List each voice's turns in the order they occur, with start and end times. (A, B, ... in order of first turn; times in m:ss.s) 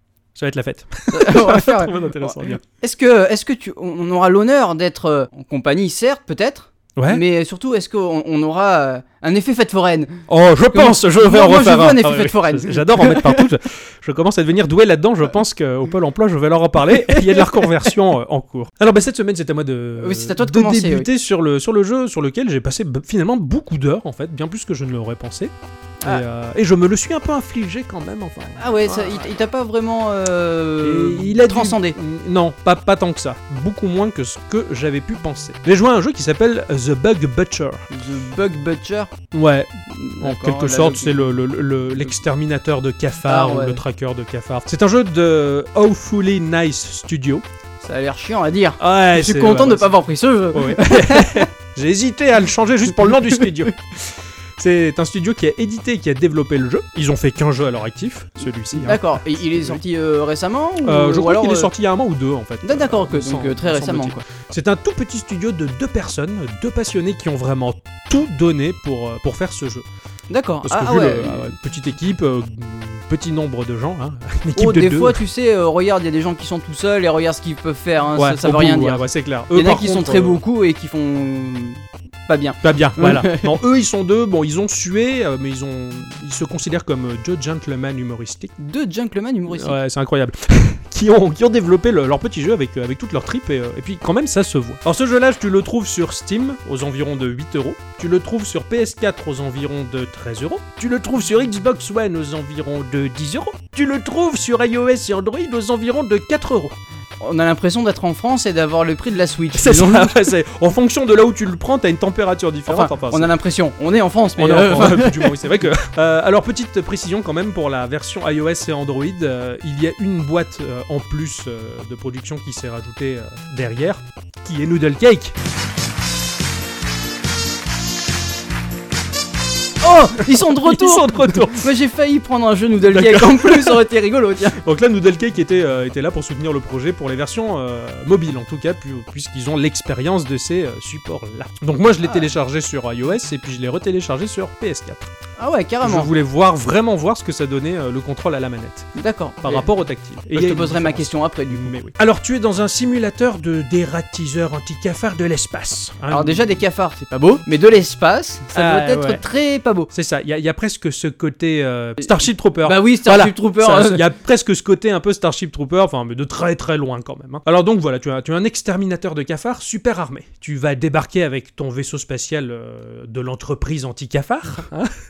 0:00.4-0:02.6 A
0:01.1-0:13.4 B
0:07.0-0:07.2 A
0:10.3-0:29.2 A
0:17.1-0:17.7 B
0:20.0-0:21.1 B
0:28.6-0:32.0 B
0:30.8-0:37.9 A
0:37.9-0:39.1 B
0:39.3-0:47.4 A
0:39.9-0:41.3 B
0:43.3-0:43.8 B
0:47.8-0:51.5 B
0:48.8-0:49.9 A
0:50.5-0:59.8 A
0:58.8-1:01.7 B
1:00.8-1:09.8 A
1:02.6-1:04.2 B
1:10.3-1:11.5 B
1:10.6-1:15.2 A
1:14.5-1:23.6 B
1:18.2-1:20.4 A
1:22.6-1:28.5 A
1:28.6-1:29.8 B
1:29.5-1:46.7 A
1:47.2-1:50.1 B
1:49.5-1:53.3 A
1:52.7-1:55.3 B
1:54.4-2:05.3 A
2:09.8-2:14.6 B
2:10.5-2:11.6 A
2:12.8-2:13.8 A
2:14.6-2:25.1 A
2:22.0-2:22.3 B
2:25.4-2:26.1 B
2:25.8-2:28.9 A
2:29.0-2:29.7 B
2:29.4-2:36.6 A
2:30.3-2:31.7 B
2:36.1-2:39.9 B
2:38.5-2:39.2 A
2:39.9-2:54.9 A
2:42.0-2:44.0 B